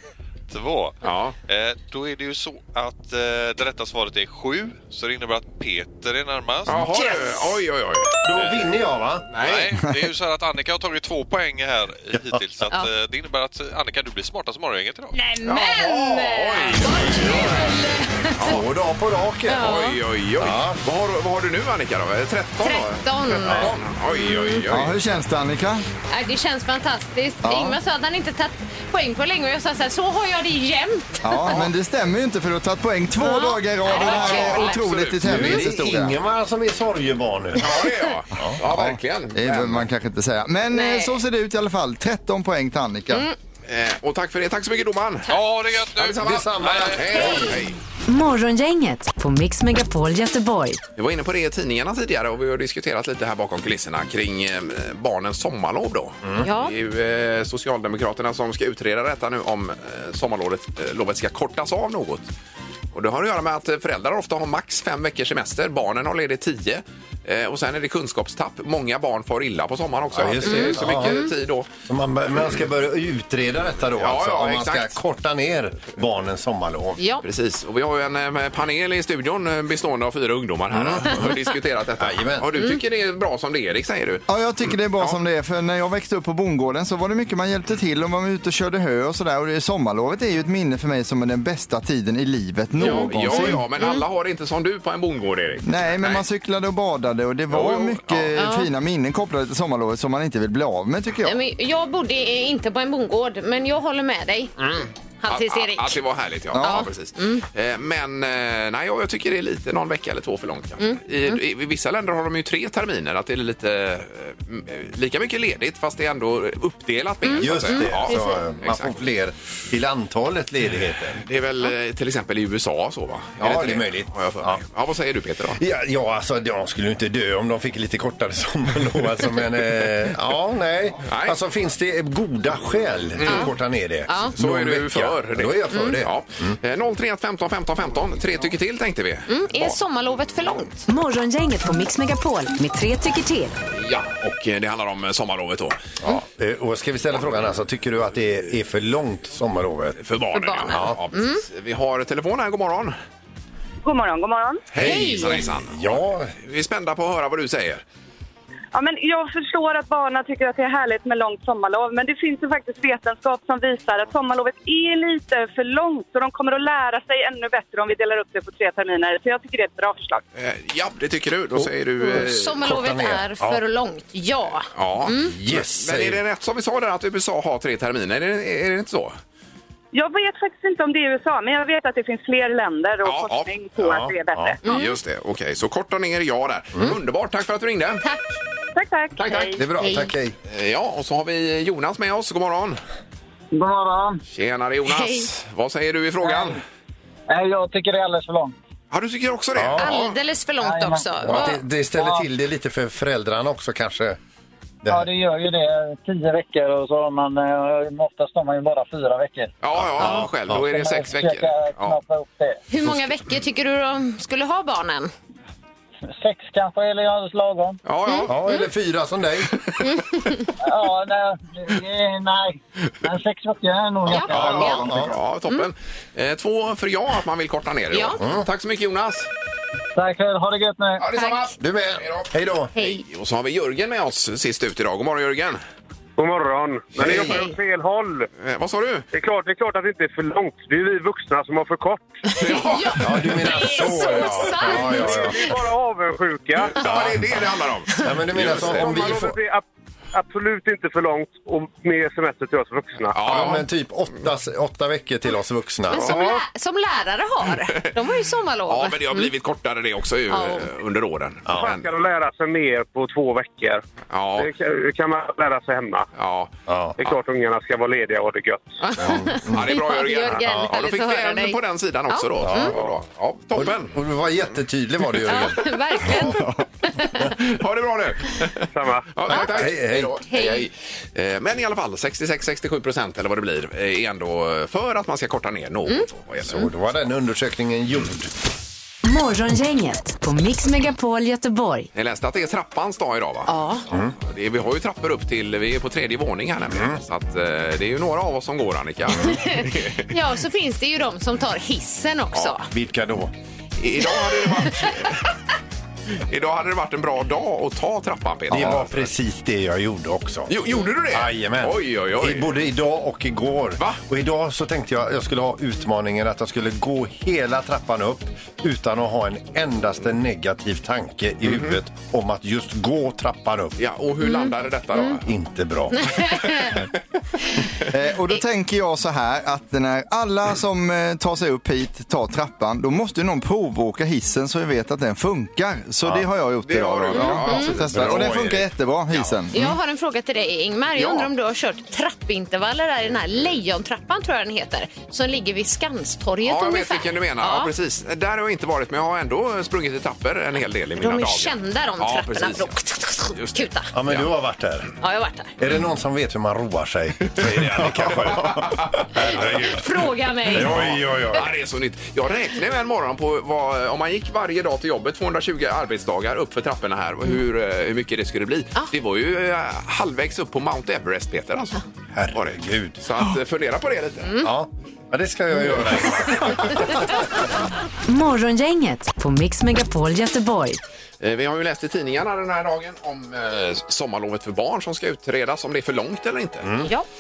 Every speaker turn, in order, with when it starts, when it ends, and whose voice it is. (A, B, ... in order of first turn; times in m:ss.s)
0:00.5-0:06.9 A
0:01.0-0:01.4 B
0:06.7-0:08.2 B
0:06.9-0:07.3 C
0:08.2-0:09.3 D
0:08.4-0:08.6 A
0:09.3-0:09.7 B
0:09.4-0:15.2 A
0:15.1-0:18.3 C
0:15.4-0:17.7 B
0:18.4-0:18.6 B
0:18.4-0:19.8 D
0:19.5-0:20.0 C
0:19.6-0:25.0 B
0:20.4-0:20.8 D
0:22.6-0:24.6 C
0:23.5-0:23.7 D
0:24.7-0:25.8 E
0:26.1-0:31.5 C
0:27.4-0:27.8 E
0:31.2-0:36.2 E
0:33.2-0:34.8 C
0:33.9-0:35.6 B
0:35.2-0:37.7 D
0:37.6-0:39.9 B
0:38.7-0:43.3 E
0:40.7-0:41.2 C
0:43.7-0:45.4 B
0:45.3-0:47.5 A
0:46.0-0:47.8 B
0:46.2-0:47.5 D
0:48.1-0:50.8 F
0:51.0-1:02.3 B
0:56.4-0:56.8 C
1:02.9-1:11.7 B
1:10.1-1:11.3 D
1:10.4-1:11.3 C
1:11.9-1:17.0 D
1:14.0-1:15.0 B
1:17.0-1:17.2 C
1:17.2-1:25.2 B
1:20.7-1:21.2 D
1:22.0-1:22.5 D
1:24.3-1:33.7 E
1:32.8-1:36.2 B
1:32.8-1:34.0 C
1:35.6-1:41.4 E
1:37.5-1:38.3 B
1:38.4-1:38.7 C
1:41.2-1:44.6 C
1:44.6-1:59.0 B
1:45.2-1:46.0 C
1:46.5-1:46.9 E
1:46.6-1:47.4 C
1:50.8-1:51.4 C
1:57.2-1:58.4 C
1:57.4-2:01.2 D
2:01.2-2:05.6 B
2:03.4-2:04.6 D
2:05.6-2:16.6 D
2:11.1-2:11.4 B
2:13.2-2:13.5 B
2:14.1-2:14.3 C
2:14.4-2:19.8 B
2:15.7-2:16.0 C
2:19.3-2:20.9 C
2:20.9-2:23.6 F
2:23.7-2:25.8 B
2:26.0-2:30.0 D
2:30.0-2:33.0 B
2:30.3-2:31.4 C
2:30.7-2:31.0 D
2:33.8-2:34.7 G
2:34.7-2:37.8 B
2:34.8-2:36.3 D
2:34.8-2:35.5 C
2:38.7-2:50.2 G
2:50.4-2:52.6 B
2:51.6-2:53.6 D
2:52.0-2:55.4 C
2:54.7-2:59.2 B
2:55.1-2:56.2 D
2:59.9-3:04.6 G
3:03.0-3:03.5 B
3:03.8-3:04.6 D
3:04.6-3:05.0 C
3:04.6-3:08.0 B
3:08.0-3:08.3 C
3:08.7-3:09.6 G
3:09.2-3:09.6 B
3:09.6-3:10.4 D
3:09.8-3:10.1 C
3:10.5-3:12.8 B
3:13.5-3:14.2 H
3:14.3-3:16.6 B
3:14.9-3:15.3 C
3:16.2-3:16.6 H
3:17.3-3:18.6 H
3:18.9-3:20.2 B
3:19.6-3:19.9 D
3:19.8-3:21.6 C
3:20.6-3:22.2 H
3:21.2-3:24.2 D
3:24.9-3:29.5 H
3:29.6-3:32.0 B
3:29.8-3:30.6 D
3:30.5-3:32.6 H
3:32.7-3:35.1 C
3:36.2-3:37.8 H
3:37.8-3:38.4 B
3:38.1-3:38.6 C
3:38.3-3:39.5 D
3:39.8-3:40.5 C
3:40.6-3:44.8 H
3:44.1-3:44.9 C
3:44.1-3:49.3 B
3:44.2-3:45.1 D
3:47.9-3:48.2 C
3:48.2-3:48.5 D
3:50.0-3:51.0 H
3:51.0-3:55.6 B
3:51.1-3:51.5 C
3:51.6-3:52.7 D
3:52.8-3:53.0 C
3:56.2-3:58.3 I
3:57.0-3:57.4 D
3:57.1-3:57.5 C
3:58.4-3:59.0 B
3:59.1-4:02.2 I
4:02.3-4:05.5 C
4:02.3-4:03.1 B
4:03.0-4:05.6 D
4:04.9-4:06.8 I
4:06.8-4:07.2 D
4:06.8-4:09.1 B
4:08.0-4:09.4 D
4:08.5-4:13.4 I
4:13.1-4:13.7 B
4:13.3-4:16.2 D
4:15.9-4:19.3 C
4:16.0-4:16.2 B
4:18.7-4:21.9 B
4:20.3-4:20.7 C
4:21.5-4:21.7 D
4:21.6-4:23.8 I
4:24.1-4:24.5 B
4:24.4-4:26.1 I
4:26.2-4:27.2 B
4:26.7-4:27.0 D
4:27.0-4:28.8 I
4:28.8-4:31.6 C
4:29.0-4:34.0 B
4:29.0-4:29.6 D
4:32.1-4:32.8 C
4:32.4-4:32.9 D
4:33.6-4:36.4 D
4:35.3-4:37.3 C
4:37.3-4:46.7 B
4:38.8-4:39.1 I
4:39.3-4:40.2 D
4:40.2-4:40.7 C
4:46.4-4:48.3 D
4:49.0-4:51.9 F
4:51.9-4:53.5 B
4:53.5-4:53.9 C
4:53.9-4:54.2 D
4:54.2-5:00.1 B
4:56.7-4:57.0 D
4:59.1-4:59.4 D
4:59.2-5:02.7 C
5:02.7-5:03.3 D
5:03.8-5:05.3 B
5:04.6-5:04.9 C
5:06.3-5:09.1 B
5:08.5-5:23.8 D
5:10.5-5:12.5 B
5:21.4-5:21.8 B
5:23.8-5:25.3 B
5:24.2-5:25.2 C
5:25.2-5:26.1 D
5:25.9-5:26.8 C
5:27.9-5:39.8 E
5:36.6-5:38.3 B
5:37.1-5:37.8 C
5:37.8-5:38.7 D
5:39.5-5:47.7 C
5:41.0-5:41.3 B
5:46.4-5:52.7 B
5:51.0-5:53.9 C
5:53.3-5:54.3 B
5:53.9-5:54.9 D
5:55.0-5:55.6 C
5:55.6-5:59.8 D
5:57.3-5:59.8 B
5:59.6-6:00.9 C
6:00.5-6:01.5 D
6:00.5-6:14.4 B
6:12.1-6:13.0 D
6:14.2-6:14.5 C
6:14.4-6:17.2 D
6:18.1-6:20.8 F
6:21.2-6:26.7 B
6:26.6-6:26.9 D